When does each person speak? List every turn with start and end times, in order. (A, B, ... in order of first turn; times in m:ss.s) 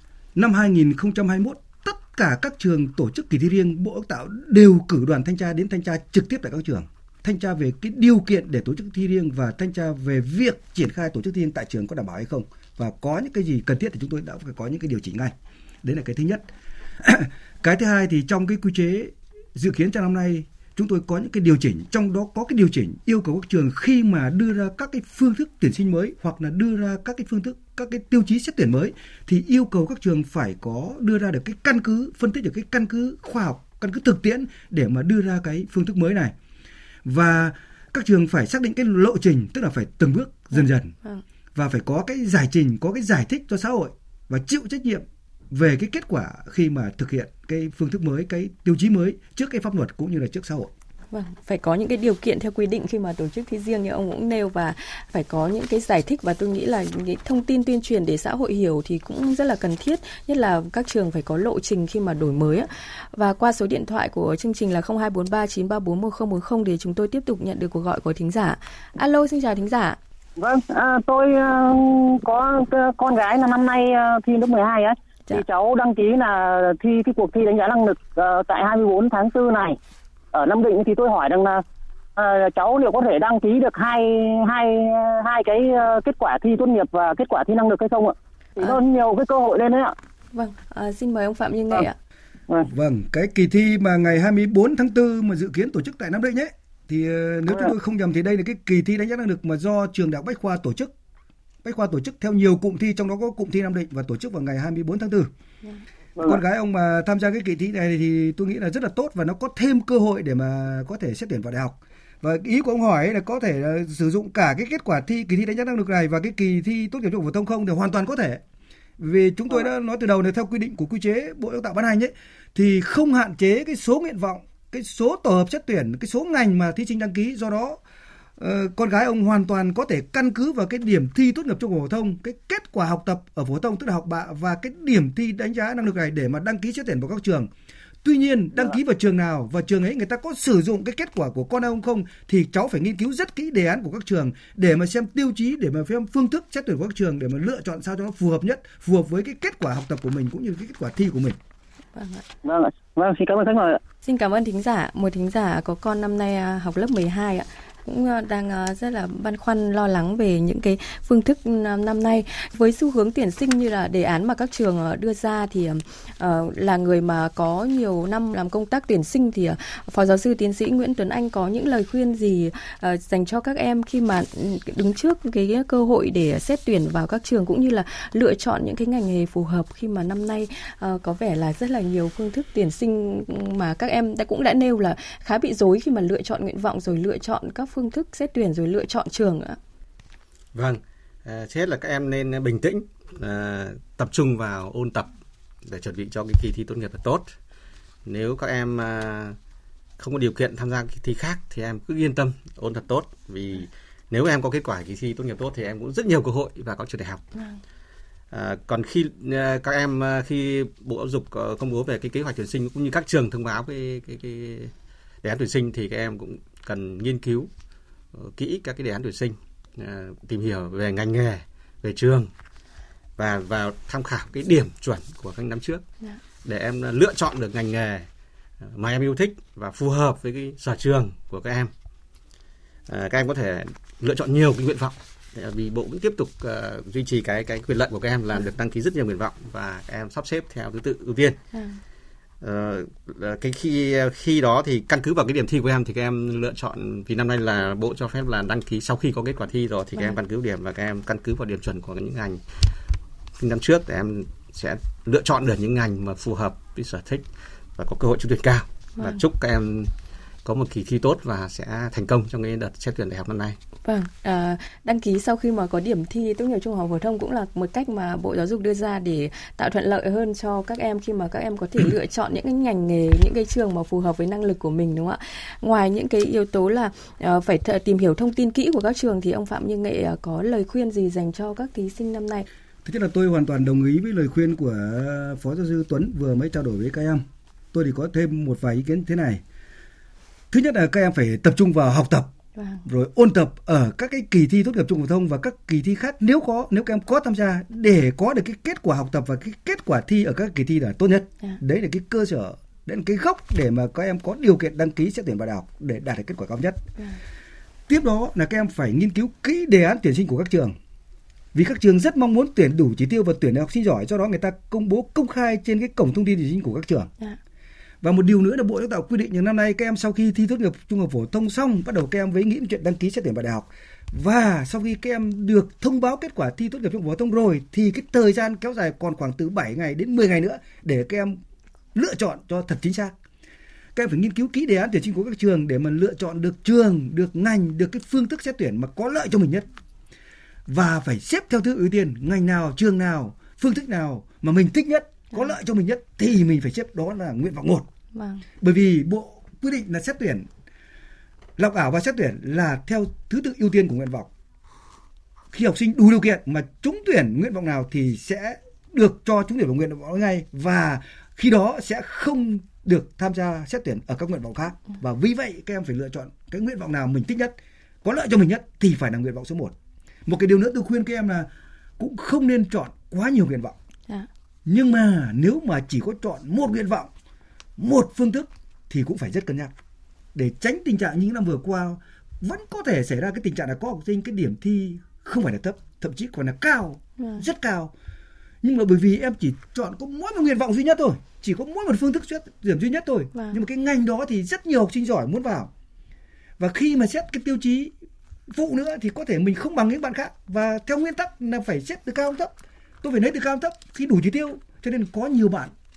0:00.3-0:36.3 A
0:37.0-0:40.9 A
0:41.5-0:50.7 A
0:51.1-1:10.0 B
1:10.4-1:19.8 C
1:20.3-1:21.6 C
1:22.2-1:29.9 C
1:30.3-1:31.9 B
1:32.7-1:40.9 A
1:41.6-1:45.3 A
1:46.2-1:58.4 A
1:59.0-2:07.8 A
2:08.4-2:17.5 A
2:18.0-2:31.4 A
2:31.9-2:32.2 B
2:32.4-2:33.8 C
2:34.0-3:09.6 B
3:10.5-3:15.1 D
3:15.6-3:17.3 D
3:18.0-3:19.4 D
3:20.0-3:27.2 D
3:28.3-3:37.5 D
3:38.1-3:42.3 D
3:43.2-3:45.8 D
3:46.4-3:48.1 D
3:48.6-3:51.7 D
3:52.9-4:01.4 D
4:01.5-4:01.8 B
4:02.4-4:12.4 D
4:13.4-4:17.2 D
4:17.8-4:19.9 D
4:20.4-4:23.6 D
4:23.8-4:42.4 B
4:42.8-4:49.4 A
4:50.5-4:52.3 A
4:52.6-4:52.8 B
4:52.8-5:06.8 A
5:07.9-5:10.8 A
5:11.5-5:17.1 A
5:18.0-5:31.4 A
5:31.9-5:33.1 A
5:33.9-5:39.7 A
5:40.7-5:47.9 A
5:48.1-5:48.4 B
5:48.6-5:50.5 A
5:51.6-5:54.3 A
5:55.5-6:09.7 A
6:10.2-6:13.8 A
6:14.6-6:17.1 A
6:17.8-6:19.7 A
6:20.3-6:27.9 A
6:28.6-6:35.7 A
6:36.6-6:37.9 A
6:38.5-6:45.7 A